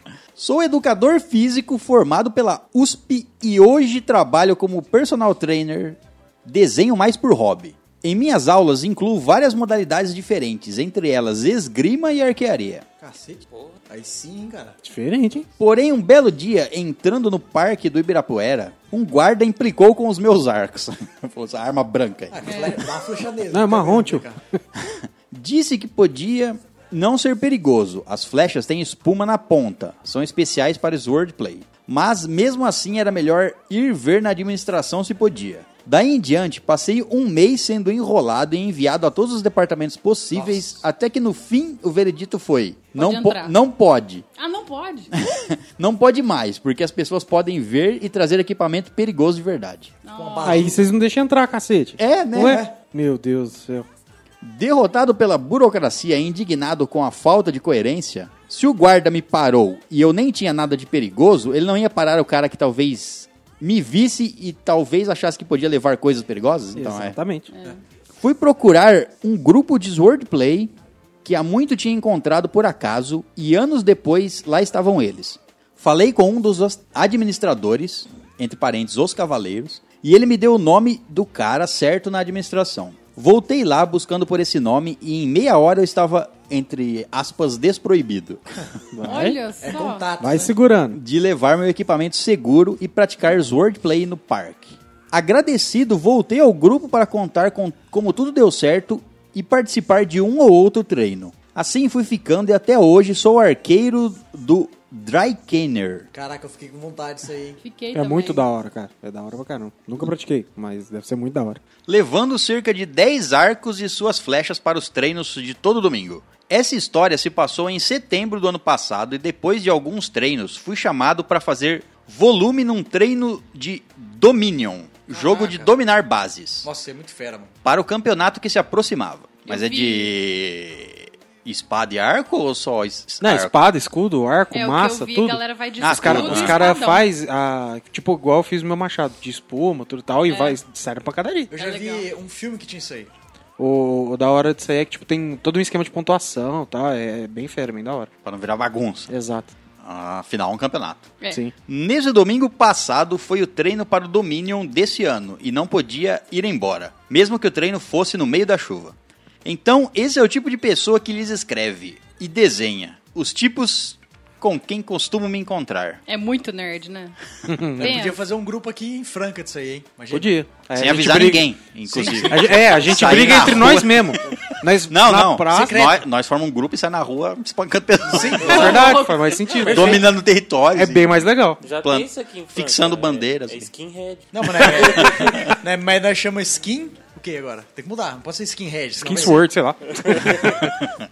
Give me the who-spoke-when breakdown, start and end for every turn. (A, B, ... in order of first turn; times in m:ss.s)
0:00.4-0:12.8 A
0:13.0-0:14.8 B
0:14.8-0:15.5 C
0:15.6-0:22.7 A
0:22.3-0:24.4 B
0:22.4-0:22.8 D
0:23.5-0:24.6 C
0:24.8-0:44.2 A
0:40.3-0:40.7 B
0:43.0-0:43.6 D
0:44.4-0:45.1 D
0:45.1-0:49.9 A
0:50.0-0:50.8 D
0:50.2-0:50.8 B
0:50.4-0:53.9 C
0:52.0-0:52.6 A
0:52.4-0:52.7 B
0:54.4-1:07.2 A
1:06.8-1:07.5 C
1:07.5-1:07.8 D
1:08.2-1:10.7 A
1:11.2-1:28.4 A
1:28.9-1:29.4 C
1:29.0-1:30.1 D
1:29.6-1:30.6 B
1:30.2-1:31.0 C
1:30.9-1:46.1 A
1:46.1-1:47.6 B
1:47.6-1:48.4 D
1:47.9-1:51.6 C
1:51.9-2:06.7 A
2:05.1-2:05.7 B
2:06.6-2:07.5 B
2:07.6-2:13.6 A
2:09.5-2:10.2 D
2:13.2-2:21.5 C
2:14.5-2:17.1 D
2:15.8-2:16.6 A
2:20.3-2:20.6 D
2:21.5-2:23.1 B
2:21.6-2:22.1 D
2:23.6-2:28.1 C
2:28.2-2:29.1 A
2:29.1-2:29.5 C
2:29.8-2:31.1 A
2:31.7-2:46.0 A
2:46.1-2:47.2 D
2:47.5-2:48.0 C
2:47.8-2:50.4 B
2:47.8-2:48.2 D
2:50.1-2:51.5 C
2:50.7-2:58.8 A
2:51.9-2:53.5 B
2:52.3-2:55.9 C
2:55.5-2:56.0 B
2:58.1-2:58.9 B
2:58.4-3:00.1 C
2:58.4-3:00.1 D
2:59.7-3:03.7 A
3:00.7-3:01.6 C
3:01.6-3:05.2 E
3:04.3-3:09.5 B
3:04.6-3:05.4 A
3:09.0-3:10.8 C